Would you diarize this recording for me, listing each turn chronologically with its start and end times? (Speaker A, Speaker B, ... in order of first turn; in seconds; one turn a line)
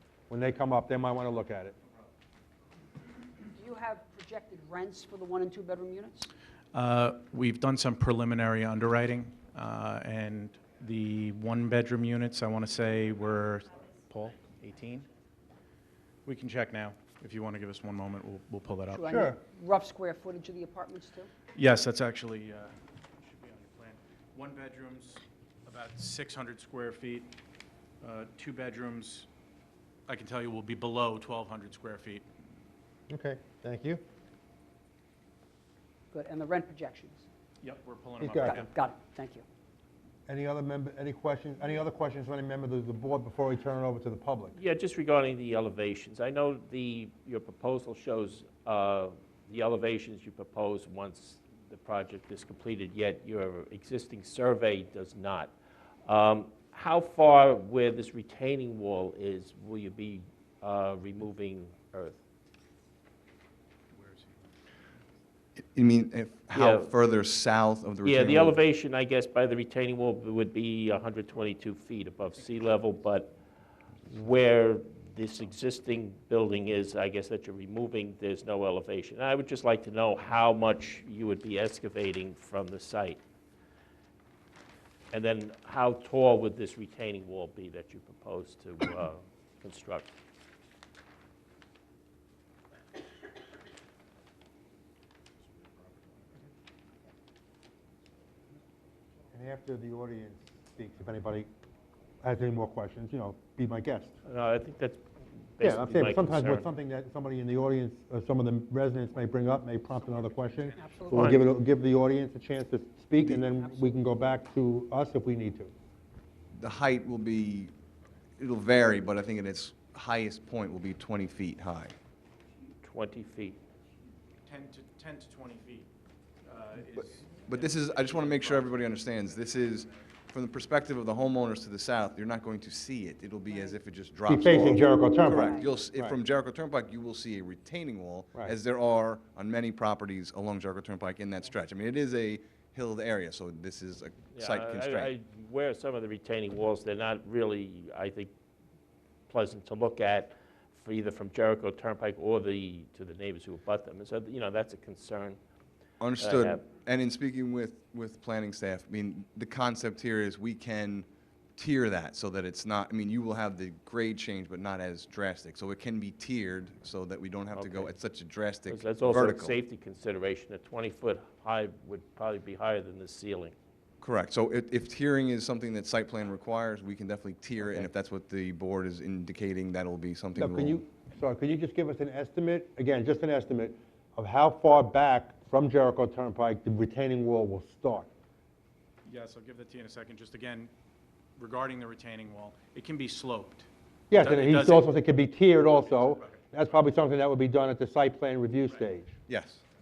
Speaker A: 0.3-1.8
Speaker B: 3.5-6.3
Speaker C: 6.7-15.1
Speaker C: 16.2-19.1
Speaker B: 18.9-21.3
Speaker A: 19.1-19.4
Speaker C: 21.5-27.3
Speaker C: 28.0-29.3
Speaker C: 30.1-32.2
Speaker A: 33.1-34.0
Speaker B: 36.1-37.2
Speaker C: 37.6-38.7
Speaker A: 38.3-38.5
Speaker B: 38.3-39.5
Speaker A: 40.3-44.6
Speaker D: 44.5-55.5
Speaker D: 56.1-62.2
Speaker C: 63.9-64.4
Speaker E: 65.8-68.6
Speaker D: 66.5-66.9
Speaker D: 68.0-73.3
Speaker D: 74.1-83.2
Speaker D: 85.1-90.1
Speaker C: 95.4-96.5
Speaker A: 99.3-101.5
Speaker A: 102.2-104.1
Speaker D: 104.2-106.7
Speaker A: 105.6-115.7
Speaker C: 110.0-111.1
Speaker B: 110.8-111.4
Speaker D: 111.1-111.4
Speaker E: 116.5-117.7
Speaker E: 118.4-121.9
Speaker D: 122.8-123.6
Speaker C: 124.5-125.9
Speaker C: 126.5-128.8
Speaker E: 127.5-145.1
Speaker A: 134.3-136.2
Speaker B: 135.3-135.7
Speaker D: 144.3-148.3
Speaker D: 149.3-155.4
Speaker E: 156.0-169.6
Speaker D: 156.2-156.6
Speaker D: 167.5-167.9
Speaker D: 168.7-173.6
Speaker E: 174.0-180.8
Speaker A: 180.4-188.1
Speaker C: 189.1-190.7
Speaker C: 191.4-194.9
Speaker A: 194.1-199.1
Speaker C: 195.7-196.4
Speaker E: 199.3-199.6